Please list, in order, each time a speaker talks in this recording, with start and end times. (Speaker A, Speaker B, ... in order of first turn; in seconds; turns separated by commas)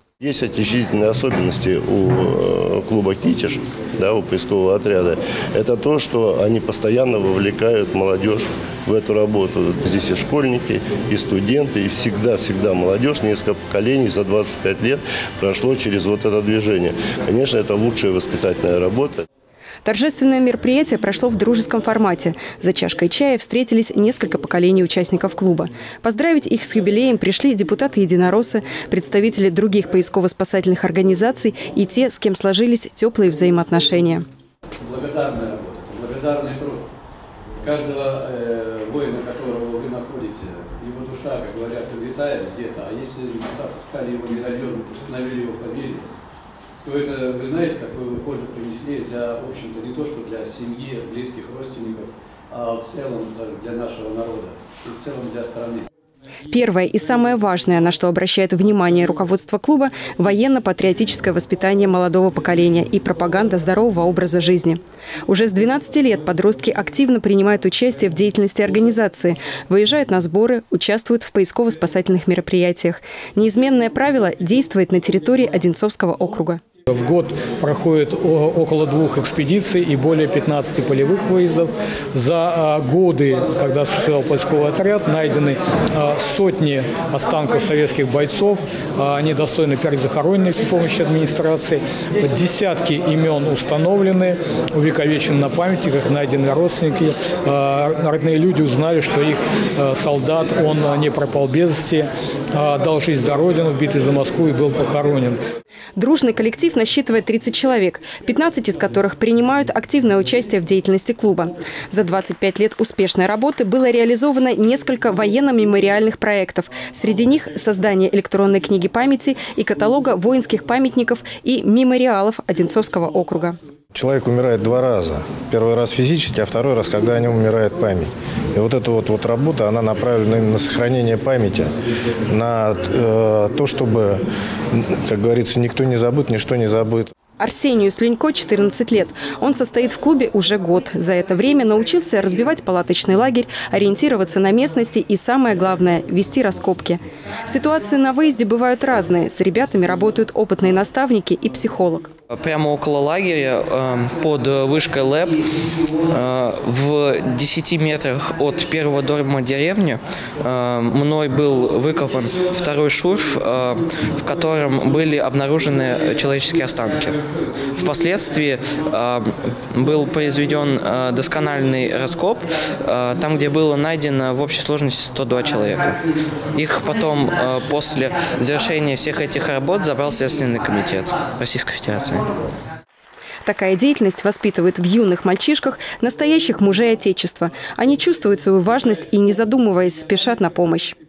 Speaker A: 0.2-19.2, Speaker B: 19.8-34.2, Speaker C: 34.8-36.8, Speaker C: 37.6-46.1, Speaker C: 46.8-55.9, Speaker B: 56.5-76.6, Speaker D: 76.9-105.4, Speaker B: 106.0-123.6, Speaker E: 123.9-131.7, Speaker E: 132.3-134.2, Speaker E: 134.7-137.1, Speaker B: 137.4-152.1, Speaker F: 152.3-155.5, Speaker F: 156.1-167.2, Speaker F: 167.8-176.0, Speaker F: 176.5-182.3, Speaker B: 183.4-190.9